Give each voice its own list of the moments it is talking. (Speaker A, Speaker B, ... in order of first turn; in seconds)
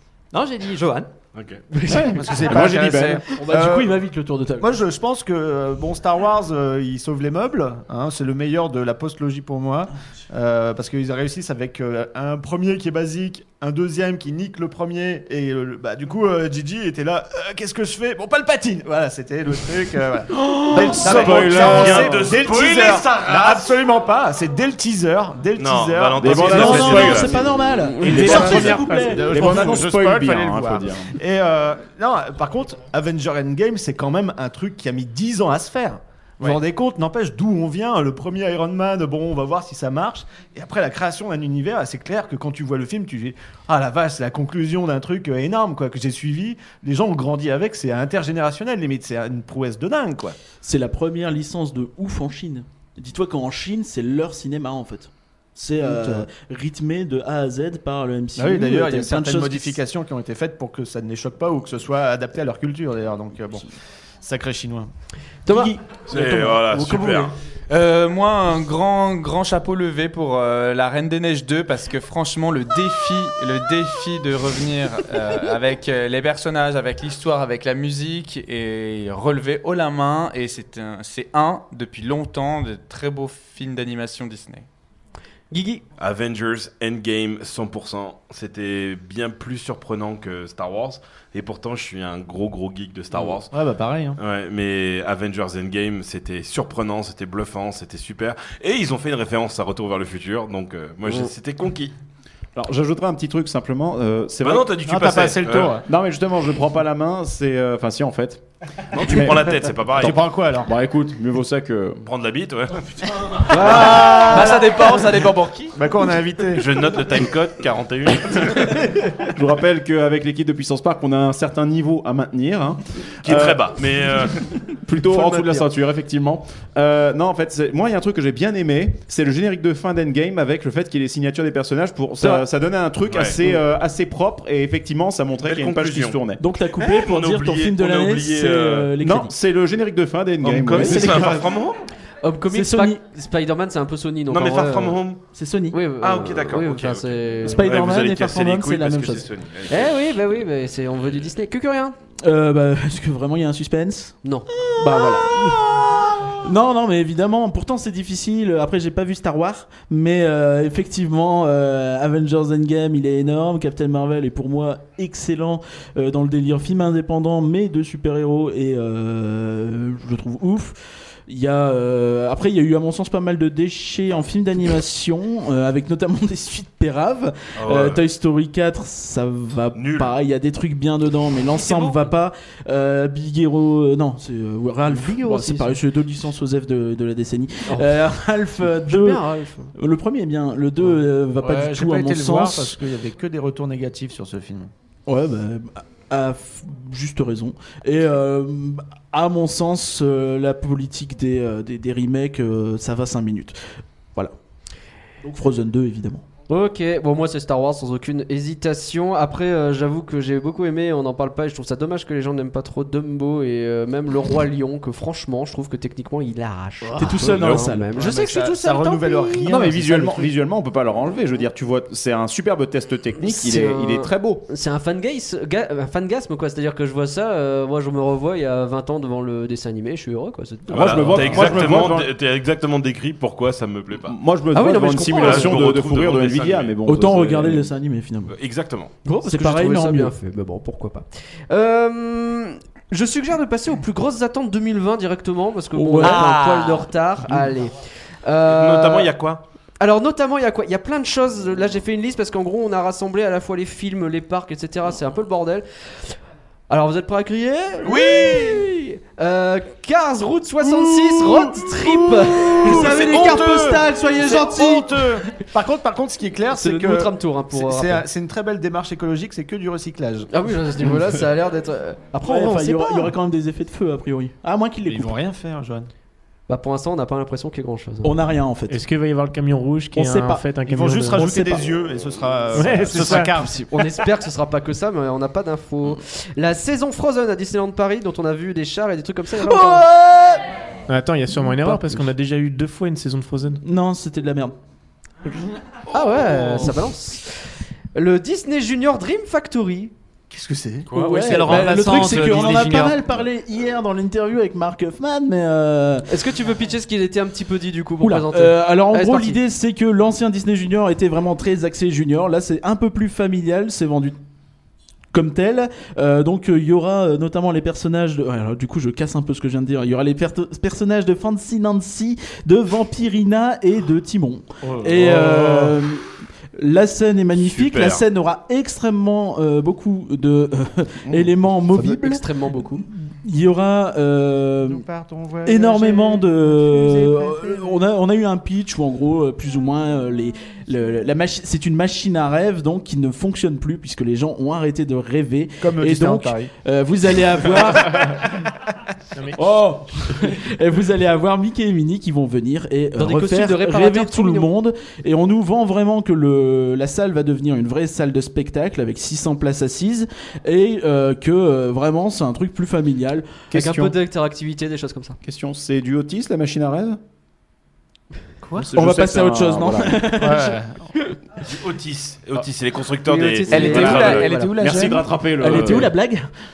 Speaker A: 0.3-1.1, 114.4-115.3, 301.1-303.0, 374.3-375.0
Speaker B: 1.3-1.6, 20.6-23.6, 25.6-27.4, 66.1-67.3, 86.0-93.5, 94.2-102.0, 104.4-105.8, 108.9-110.2, 112.0-114.2, 116.6-118.8, 123.2-124.5, 133.1-133.5, 135.4-136.2, 136.8-138.9, 140.4-141.8, 144.3-145.2, 146.0-150.0, 177.6-178.0, 179.8-180.1, 217.2-217.8, 230.7-234.2, 235.2-236.8, 238.3-238.9, 248.5-249.4, 325.1-325.7, 327.4-328.0, 371.4-374.3
Speaker C: 1.9-3.2, 20.7-22.2, 26.2-27.4, 28.1-31.2, 102.5-104.7, 105.8-108.4, 109.0-112.0, 119.3-123.7, 124.7-136.4, 139.0-141.4, 219.4-224.4, 230.7-232.1, 234.0-237.7, 363.5-364.0, 365.2-367.0, 368.6-370.0, 373.9-375.9
Speaker D: 2.2-4.0, 4.6-27.1, 28.1-50.4, 55.8-56.3, 58.4-63.7, 64.2-64.9, 93.5-94.2, 104.8-105.8, 110.0-110.7, 113.5-114.9, 115.7-116.7, 191.4-194.7, 217.9-220.3, 258.0-258.6, 262.6-270.3, 274.9-275.9, 280.6-283.9, 300.3-300.9, 334.7-337.8, 345.6-346.5, 370.2-370.9
Speaker E: 3.3-4.8, 20.8-21.3, 26.4-29.8, 50.6-59.8, 65.5-67.3, 136.4-139.3, 140.7-141.5, 142.5-143.0, 145.3-145.8, 147.4-149.3, 152.2-154.2, 154.8-192.8, 195.1-203.6, 205.2-206.2, 217.0-217.9, 236.8-238.3, 239.2-240.1, 245.7-246.4, 247.2-247.5, 260.6-265.1, 272.2-275.2, 278.0-278.9, 279.9-280.5, 281.1-281.7, 289.4-290.5, 291.5-292.1, 293.6-294.6, 301.0-306.1, 308.0-314.2, 315.1-332.3, 333.1-334.9, 335.4-348.2, 349.4-363.4, 368.6-370.6, 375.4-376.3
Speaker F: 28.1-28.4, 65.5-65.7, 85.5-85.8, 113.5-114.7, 142.2-145.0, 145.7-147.7, 149.7-152.0, 184.9-185.8, 188.7-189.7, 206.5-219.6, 223.2-231.7, 234.5-235.6, 239.1-249.1, 249.8-256.2, 256.7-263.3, 266.5-268.0, 270.3-273.1, 276.5-278.2, 283.7-289.9, 295.9-299.9, 301.1-301.4, 306.1-309.4, 331.7-332.9, 353.0-354.5, 363.5-365.2, 373.1-374.5, 375.5-375.8
Speaker G: 28.2-29.1, 278.7-281.4, 282.5-283.3, 290.9-293.6, 349.1-349.4
Speaker H: 67.7-84.7, 114.2-115.8, 246.3-246.8, 300.9-302.5, 373.5-375.0